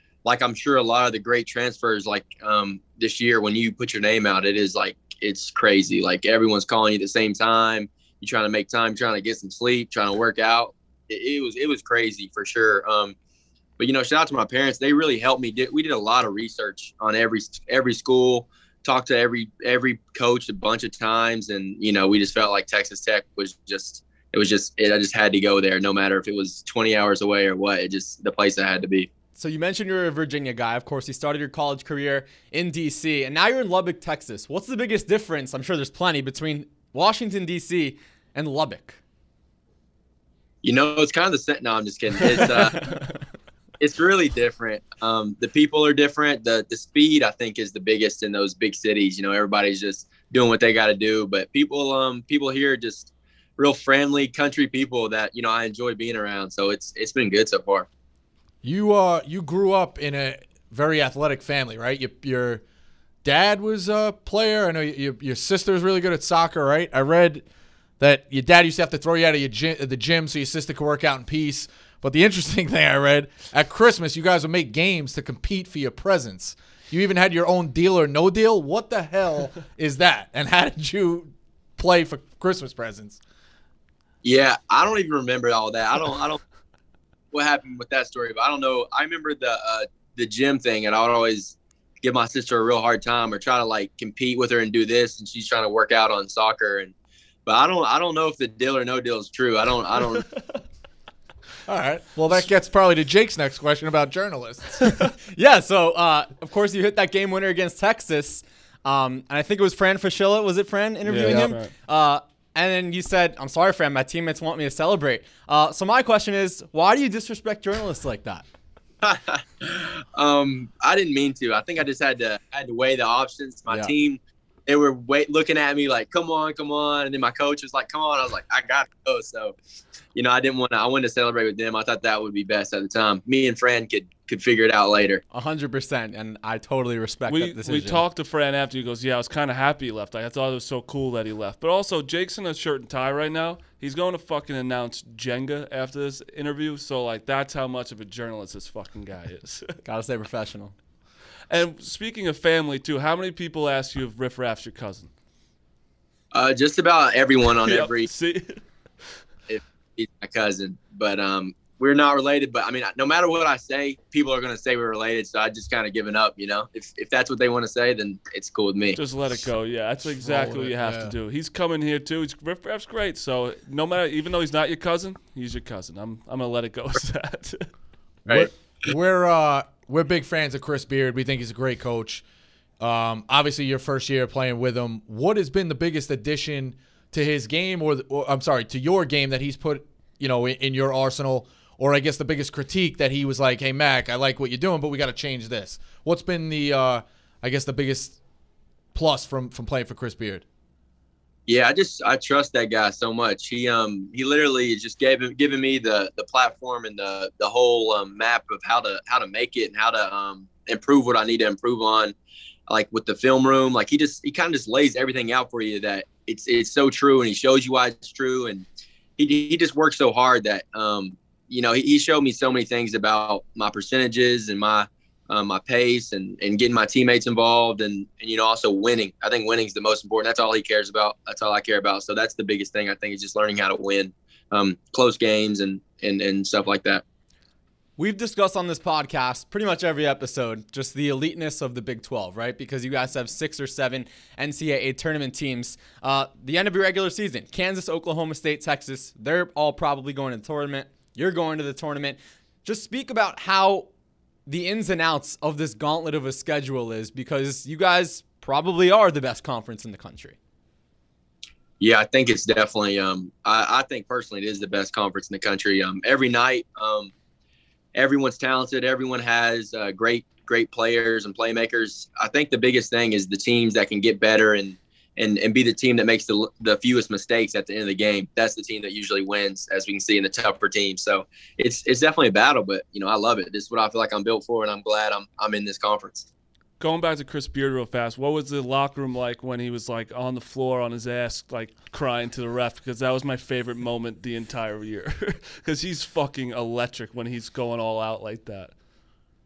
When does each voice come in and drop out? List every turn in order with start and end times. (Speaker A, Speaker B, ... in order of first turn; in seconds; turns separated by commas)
Speaker A: 0.2-13.2, Speaker A: 13.8-29.1, Speaker B: 29.4-39.0, Speaker A: 40.6-42.8, Speaker C: 42.7-43.2, Speaker A: 43.8-57.9, Speaker D: 58.6-62.6, Speaker D: 63.2-67.5, Speaker D: 68.0-83.2, Speaker A: 84.2-86.4, Speaker A: 87.3-96.9, Speaker A: 97.5-100.3, Speaker D: 101.7-104.9, Speaker B: 105.1-118.5, Speaker C: 111.0-111.7, Speaker D: 111.2-111.5, Speaker A: 119.0-129.6, Speaker A: 130.2-135.2, Speaker B: 135.3-138.0, Speaker C: 137.3-149.8, Speaker B: 149.8-150.8, Speaker C: 151.5-155.1, Speaker A: 156.3-158.1, Speaker C: 157.6-158.6, Speaker A: 159.5-169.0, Speaker C: 168.9-177.7, Speaker D: 170.1-171.2, Speaker D: 178.3-182.2, Speaker A: 178.3-178.9, Speaker D: 182.8-198.2, Speaker D: 198.9-200.4, Speaker A: 201.5-212.2, Speaker A: 212.7-218.7, Speaker A: 219.2-237.0, Speaker B: 238.0-253.9, Speaker B: 254.5-260.4, Speaker A: 261.8-267.1, Speaker A: 267.9-286.3, Speaker C: 286.8-298.7